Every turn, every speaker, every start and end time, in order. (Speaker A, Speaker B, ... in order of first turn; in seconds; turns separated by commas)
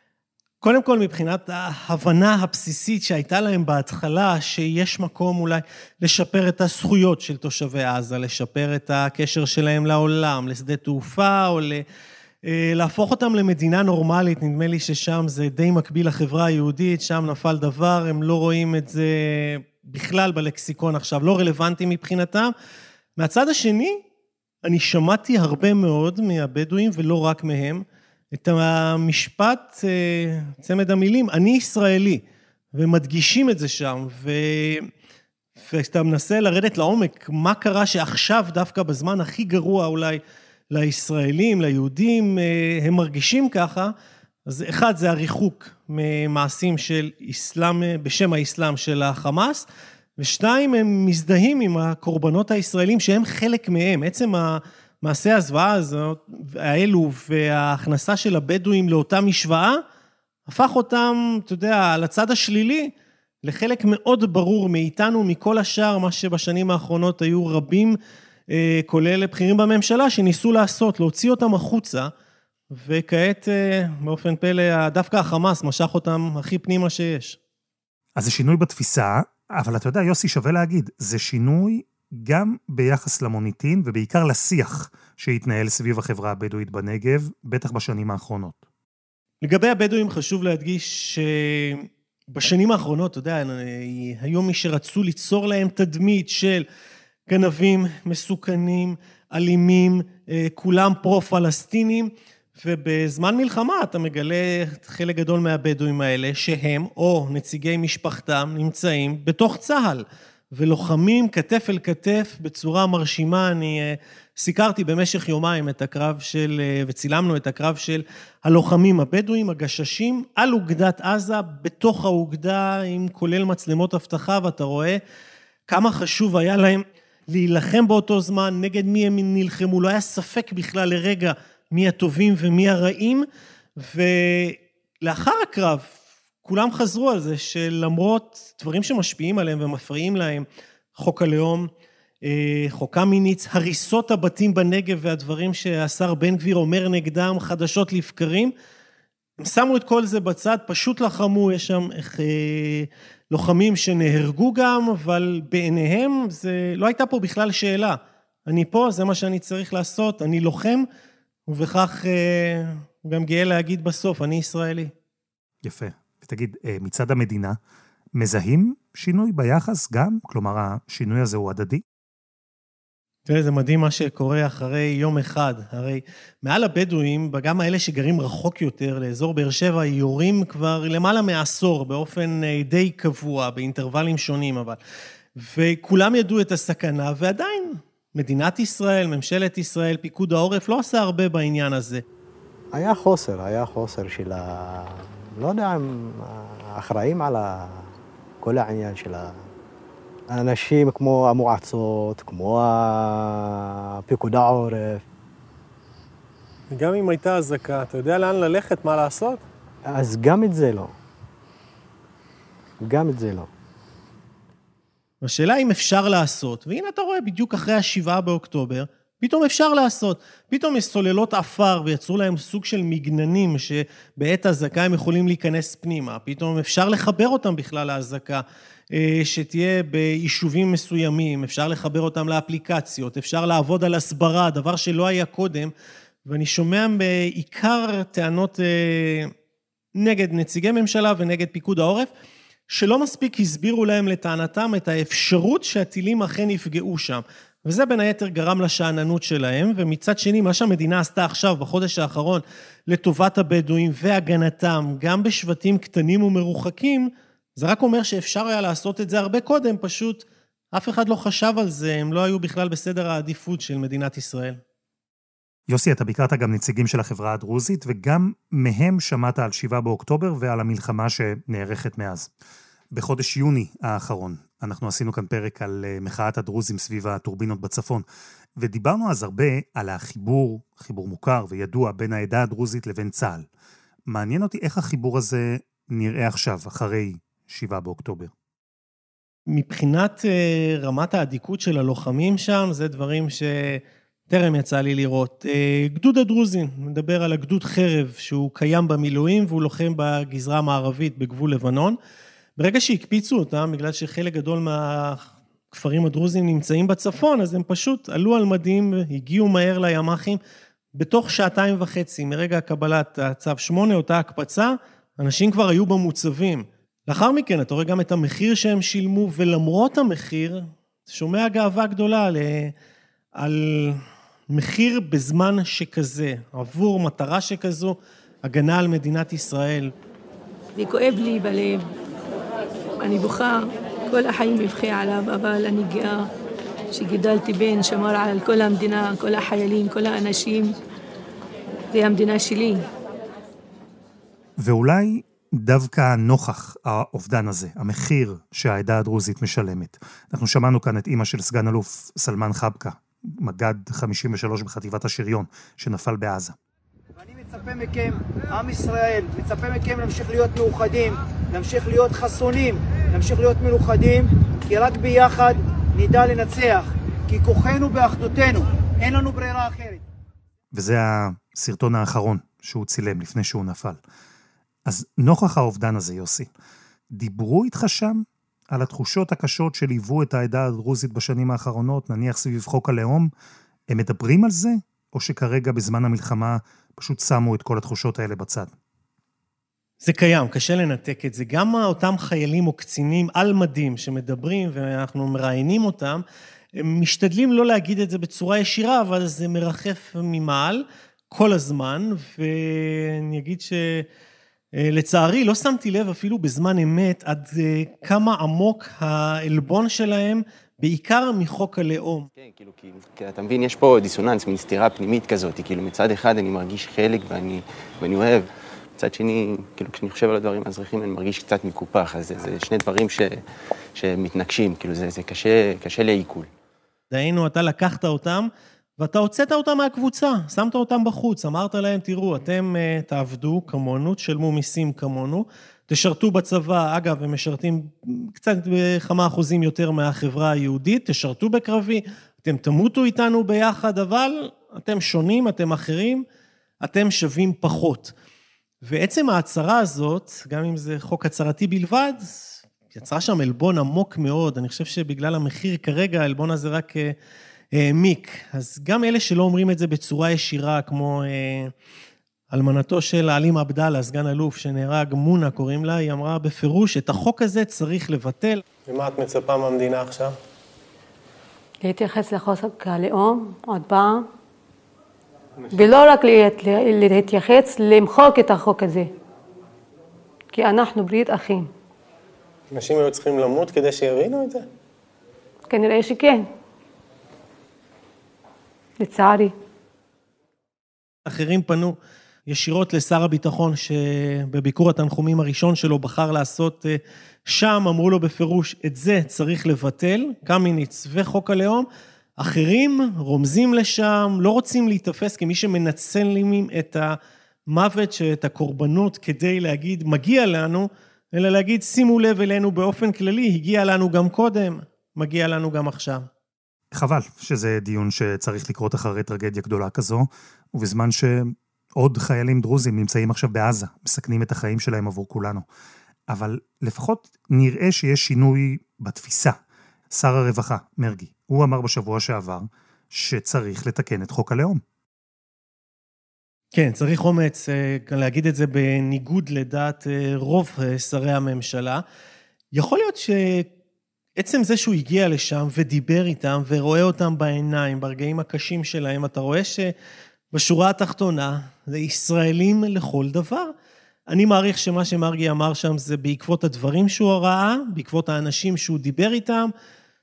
Speaker A: 0.6-11.8, Speaker A: 12.4-22.5, Speaker A: 23.2-24.0, Speaker A: 24.6-32.2, Speaker A: 32.7-34.9, Speaker A: 35.6-40.2, Speaker A: 40.7-43.9, Speaker A: 44.5-49.7, Speaker A: 50.2-59.8, Speaker A: 60.5-62.9, Speaker A: 63.4-68.0, Speaker A: 68.5-72.1, Speaker A: 72.7-77.4, Speaker B: 78.2-88.6, Speaker A: 89.4-96.7, Speaker A: 97.3-125.0, Speaker A: 125.7-133.3, Speaker A: 133.8-135.9, Speaker A: 136.4-141.7, Speaker A: 142.2-148.5, Speaker A: 149.4-160.9, Speaker A: 161.5-164.9, Speaker B: 165.6-167.6, Speaker B: 168.2-171.8, Speaker A: 173.3-184.8, Speaker A: 185.4-192.0, Speaker C: 192.7-199.5, Speaker C: 200.3-205.1, Speaker A: 206.7-209.4, Speaker C: 209.9-210.9, Speaker C: 212.8-213.5, Speaker A: 215.2-235.7, Speaker A: 236.3-239.3, Speaker A: 240.0-242.1, Speaker A: 242.7-264.6, Speaker B: 265.7-272.3, Speaker B: 272.9-278.1, Speaker B: 278.6-283.5, Speaker B: 284.1-288.3, Speaker A: 289.5-302.0, Speaker A: 302.6-310.4, Speaker A: 310.9-322.7, Speaker A: 323.4-329.9, Speaker D: 330.8-331.9, Speaker D: 333.0-336.3, Speaker D: 336.9-340.7, Speaker D: 341.9-342.8, Speaker B: 344.6-356.6, Speaker E: 357.2-370.0, Speaker B: 370.7-374.0, Speaker B: 374.9-376.5, Speaker B: 377.1-383.3, Speaker B: 383.9-388.7, Speaker A: 390.0-396.2, Speaker A: 396.8-404.1, Speaker A: 404.8-412.3, Speaker F: 412.4-423.4, Speaker F: 423.9-426.5, Speaker A: 427.1-446.2, Speaker A: 446.8-448.1, Speaker A: 448.8-457.1, Speaker A: 457.7-461.7, Speaker A: 462.5-470.3, Speaker G: 471.8-474.3, Speaker G: 475.7-479.1, Speaker G: 480.5-481.7, Speaker A: 482.7-484.6, Speaker G: 485.7-486.5, Speaker G: 489.0-489.5, Speaker A: 491.3-492.0, Speaker A: 492.5-501.9, Speaker A: 502.4-507.2, Speaker A: 507.7-516.3, Speaker B: 516.9-525.6, Speaker B: 526.3-529.6, Speaker B: 530.1-534.8, Speaker A: 536.7-542.0, Speaker A: 542.7-543.7, Speaker A: 544.4-549.9, Speaker A: 550.5-553.7, Speaker A: 554.3-559.7